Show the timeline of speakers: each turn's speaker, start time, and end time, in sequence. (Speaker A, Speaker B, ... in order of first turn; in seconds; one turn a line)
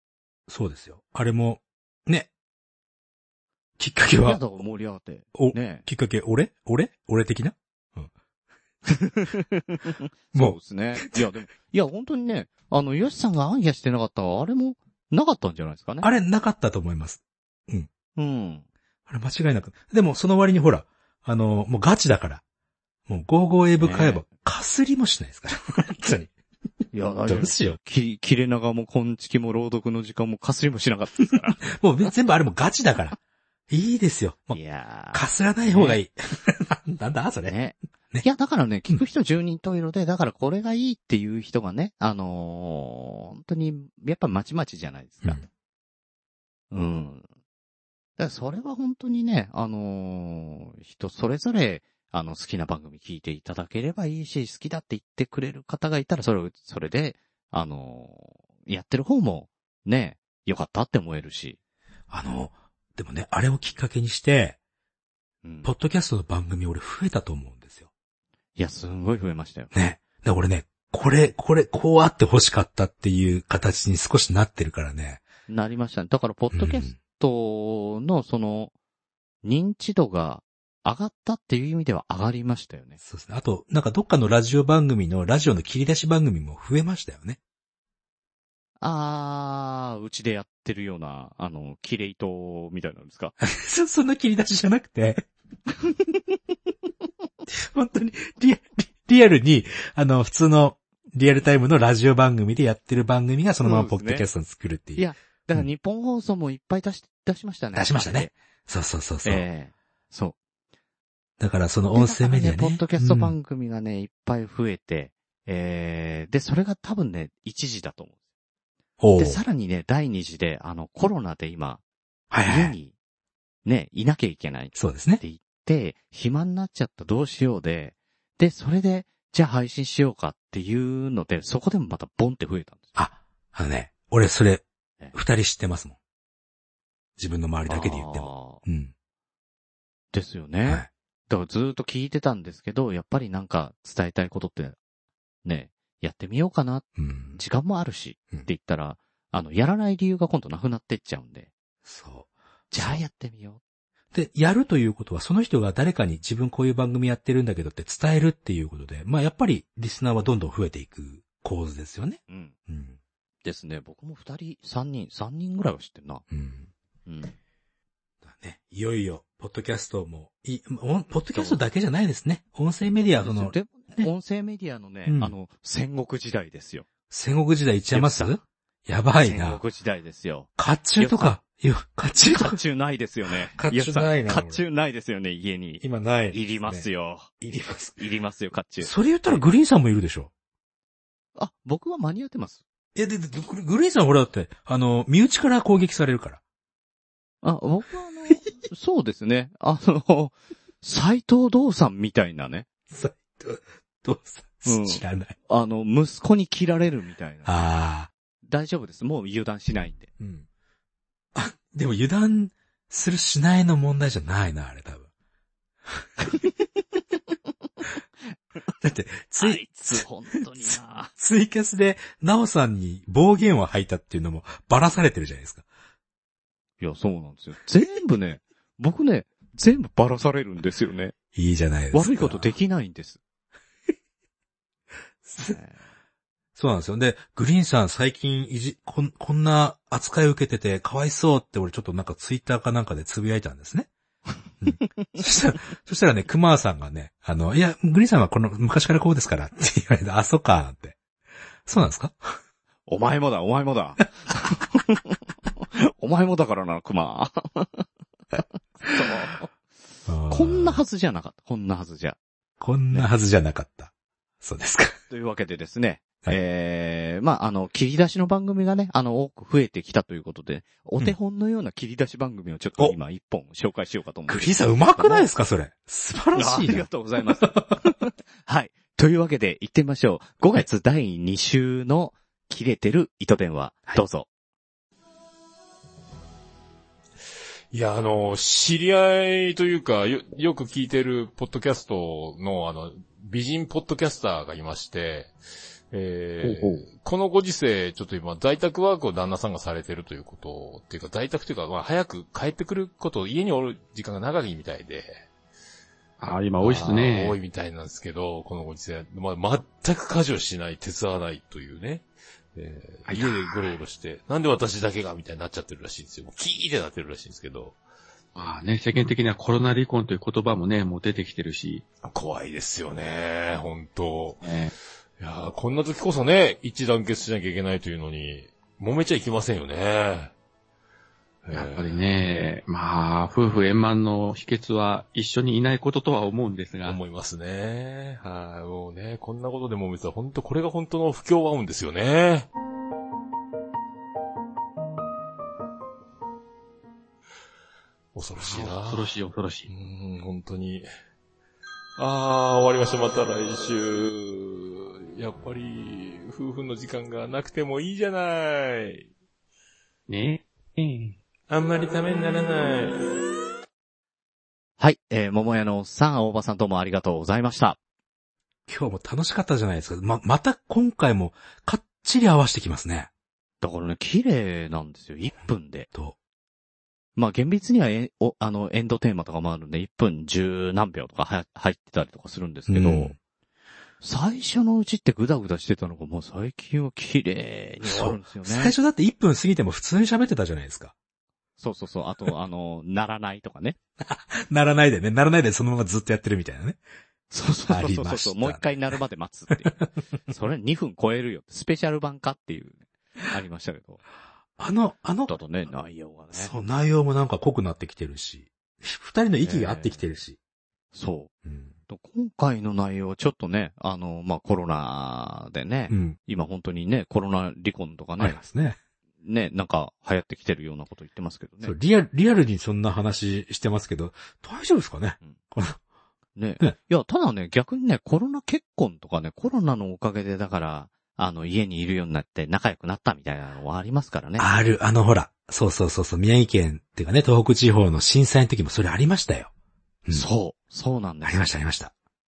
Speaker A: 0.5-2.3
Speaker A: 3.8-4.4
Speaker B: 4.1-5.8
Speaker A: 5.3-8.1
Speaker B: 8.9-16.1
Speaker A: 16.0-17.9
Speaker B: 18.1-18.6
Speaker A: 19.1-22.4
Speaker A: 23.1-26.3
Speaker B: 23.8-24.2
Speaker B: 26.9-31.7
Speaker A: 27.3-27.8
Speaker A: 31.6-33.2
Speaker A: 33.7-34.6
Speaker B: 34.5-36.0
Speaker A: 35.1-37.5
Speaker B: 37.4-45.4
Speaker B: 46.7-47.2
Speaker B: 48.2-61.6
Speaker A: 62.1-64.6
Speaker B: 65.4-65.7
Speaker A: 65.6-67.9
Speaker B: 68.6-69.7
Speaker A: 69.7-75.2
Speaker B: 75.5-78.7
Speaker A: 76.5-76.9
Speaker B: 79.4-83.0
Speaker A: 83.0-87.4
Speaker B: 88.8-93.3
Speaker A: 93.4-95.2
Speaker A: 97.5-105.0
Speaker B: 103.6-104.3
Speaker B: 105.0-108.3
Speaker A: 107.7-109.4
Speaker B: 109.2-110.4
Speaker A: 111.4-113.3
Speaker B: 111.9-118.1
Speaker A: 119.0-119.4
Speaker B: 119.2-121.8
Speaker A: 122.3-122.7
Speaker B: 122.4-122.9
Speaker B: 123.6-132.8
Speaker A: 124.8-125.2
Speaker A: 132.9-134.6
Speaker A: 135.1-135.9
Speaker A: 137.2-138.9
Speaker B: 137.7-138.6
Speaker B: 140.1-144.8
Speaker B: 145.4-151.5
Speaker A: 147.0-147.4
Speaker A: 151.8-153.0
Speaker B: 152.7-153.6
Speaker A: 154.1-163.0
Speaker B: 162.3-162.5
Speaker B: 163.4-166.2
Speaker A: 166.3-166.7
Speaker B: 167.1-167.3
Speaker A: 168.2-174.1
Speaker B: 171.3-171.6
Speaker B: 173.2-176.9
Speaker A: 175.1-175.3
Speaker A: 177.1-179.6
Speaker B: 177.9-178.4
Speaker B: 179.2-181.4
Speaker A: 180.6-182.6
Speaker B: 182.2-187.3
Speaker A: 183.5-184.6
Speaker A: 185.8-186.8
Speaker A: 187.4-188.0
Speaker B: 188.0-189.4
Speaker A: 188.8-190.3
Speaker B: 191.3-192.6
Speaker A: 192.9-196.4
Speaker B: 197.4-202.7
Speaker A: 202.9-205.3
Speaker B: 204.6-207.6
Speaker A: 207.4-208.1
Speaker B: 208.4-210.1
Speaker A: 210.2-210.4
Speaker A: 211.3-215.1
Speaker A: 218.8-220.1
Speaker B: 219.4-221.1
Speaker A: 220.6-225.6
Speaker B: 226.8-231.1
Speaker A: 231.3-232.5
Speaker B: 231.9-233.2
Speaker A: 235.2-235.6
Speaker B: 235.4-235.8
Speaker A: 236.5-243.9
Speaker A: 244.6-250.9
Speaker A: 251.7-252.4
Speaker B: 252.9-255.2
Speaker B: 255.7-259.5
Speaker A: 260.1-260.8
Speaker B: 260.3-262.2
Speaker A: 262.6-264.9
Speaker B: 265.1-275.3
Speaker A: 274.3-276.9
Speaker B: 276.3-284.3
Speaker A: 277.4-277.8
Speaker C: 287.7-295.3
Speaker C: 295.9-305.1
Speaker D: 296.4-296.9
Speaker D: 306.2-307.4
Speaker C: 306.6-317.8
Speaker D: 313.1-313.7
Speaker D: 318.4-321.8
Speaker C: 322.0-324.4
Speaker D: 324.4-324.7
Speaker C: 325.2-330.3
Speaker C: 331.4-332.1
Speaker D: 331.5-337.0
Speaker C: 336.8-342.5
Speaker C: 348.1-349.1
Speaker D: 348.4-349.7
Speaker C: 349.7-350.9
Speaker C: 352.0-359.1
Speaker D: 360.1-361.2
Speaker C: 361.5-363.0
Speaker B: 364.8-367.8
Speaker A: 368.7-373.1
Speaker B: 373.6-375.9
Speaker B: 377.1-383.1
Speaker A: 382.7-383.1
Speaker B: 384.0-388.7
Speaker A: 387.9-390.9
Speaker B: 391.6-393.8
Speaker A: 394.0-396.8
Speaker B: 397.3-399.7
Speaker A: 397.7-398.6
Speaker B: 400.3-404.0
Speaker A: 404.6-405.3
Speaker B: 405.3-406.5
Speaker A: 406.3-410.4
Speaker B: 409.4-410.0
Speaker B: 410.9-411.3
Speaker A: 411.4-411.7
Speaker B: 411.9-418.4
Speaker A: 415.9-416.2
Speaker A: 418.2-418.8
Speaker B: 419.2-421.7
Speaker A: 421.6-425.8
Speaker B: 426.4-434.5
Speaker A: 434.4-439.5
Speaker B: 440.1-441.5
Speaker A: 441.2-441.9